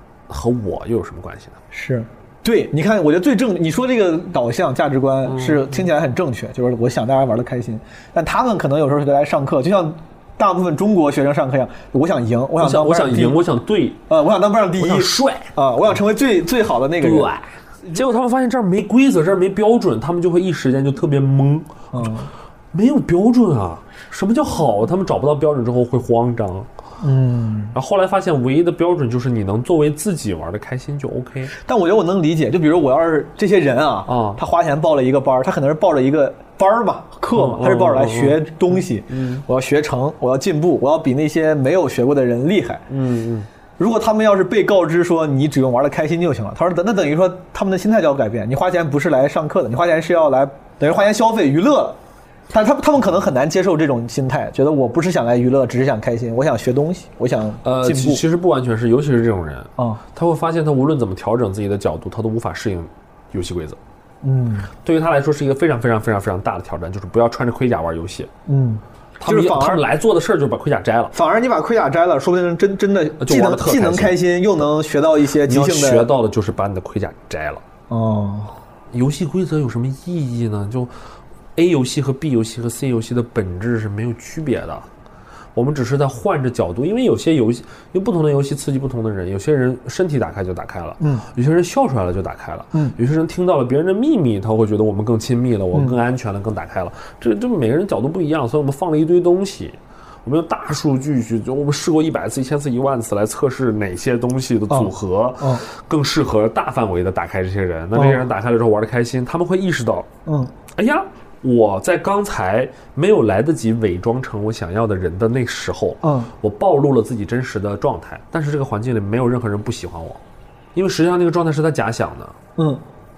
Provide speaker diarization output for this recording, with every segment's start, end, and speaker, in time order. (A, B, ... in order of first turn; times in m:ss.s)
0:00.3-0:01.6 A
0:01.7-0:13.4 B
0:05.3-0:05.6 A
0:12.6-0:14.0 A
0:14.1-0:17.3 B
0:14.8-0:15.5 A
0:17.0-0:22.1 A
0:21.9-0:22.3 B
0:22.7-0:26.7 A
0:27.0-0:27.7 B
0:27.7-0:31.5 A
0:31.6-0:42.9 B
0:34.0-0:34.4 A
0:37.3-0:39.4 A
0:42.9-0:43.5 A
0:43.8-0:52.0 B
0:52.5-0:58.2 B
0:57.6-1:03.8 A
1:04.2-1:04.7 B
1:04.8-1:08.3 A
1:08.4-1:09.8 B
1:09.2-1:11.1 A
1:11.1-1:16.1 B
1:13.2-1:14.2 A
1:15.4-1:17.6 A
1:17.9-1:18.6 B
1:18.9-1:20.9 A
1:21.6-1:24.9 A
1:25.6-1:50.1 A
1:44.7-1:45.6 B
1:47.9-1:48.2 B
1:50.2-1:50.5 B
1:50.7-2:00.2 A
1:56.0-1:56.3 B
2:00.7-2:02.4 A